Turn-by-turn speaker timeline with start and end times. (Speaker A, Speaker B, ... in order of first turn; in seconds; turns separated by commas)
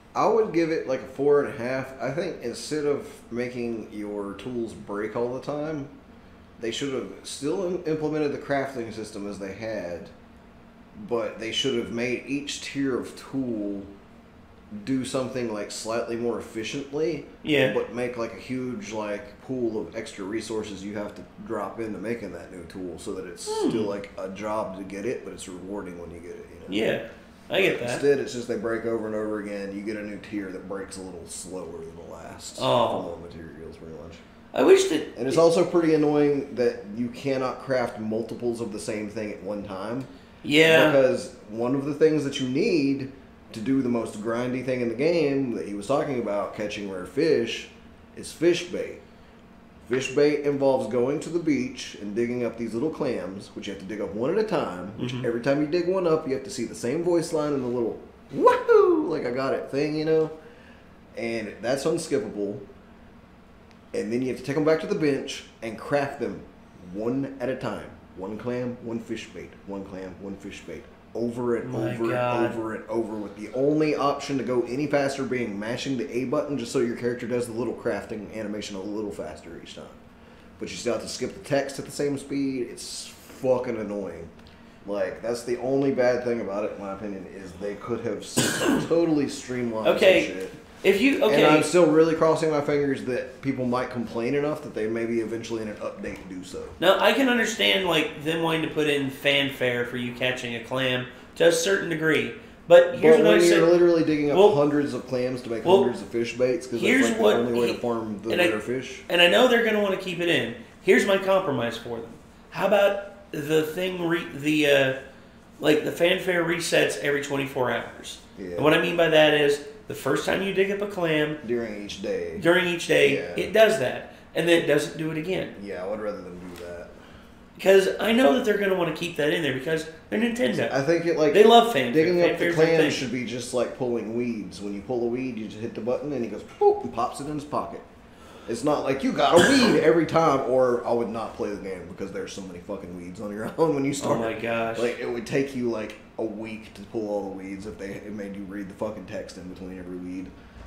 Speaker A: 0.1-5.9, Speaker A: 6.6-10.1, Speaker A: 11.0-13.9, Speaker A: 14.8-26.9, Speaker B: 17.4-17.8, Speaker B: 23.5-23.9, Speaker B: 26.7-28.1, Speaker A: 27.6-34.2, Speaker B: 32.6-33.1, Speaker B: 34.5-35.4, Speaker A: 35.2-40.1, Speaker B: 40.4-41.0, Speaker A: 40.6-49.0, Speaker A: 49.9-60.3, Speaker B: 55.0-55.3, Speaker A: 61.1-62.7, Speaker A: 63.9-80.0, Speaker B: 71.6-72.6, Speaker A: 80.6-84.3, Speaker A: 84.8-90.6, Speaker B: 89.8-91.7, Speaker A: 91.3-96.8, Speaker B: 96.8-103.7, Speaker A: 102.9-109.0, Speaker B: 104.3-104.6, Speaker B: 105.6-105.9, Speaker B: 106.7-108.5, Speaker B: 109.1-115.0, Speaker B: 115.6-121.4, Speaker A: 118.4-118.7, Speaker A: 121.4-122.5, Speaker B: 122.4-125.5, Speaker A: 123.0-123.5, Speaker A: 125.6-127.0, Speaker B: 127.6-130.8, Speaker A: 130.7-137.8, Speaker B: 131.3-133.0, Speaker A: 138.5-150.3, Speaker B: 144.0-145.0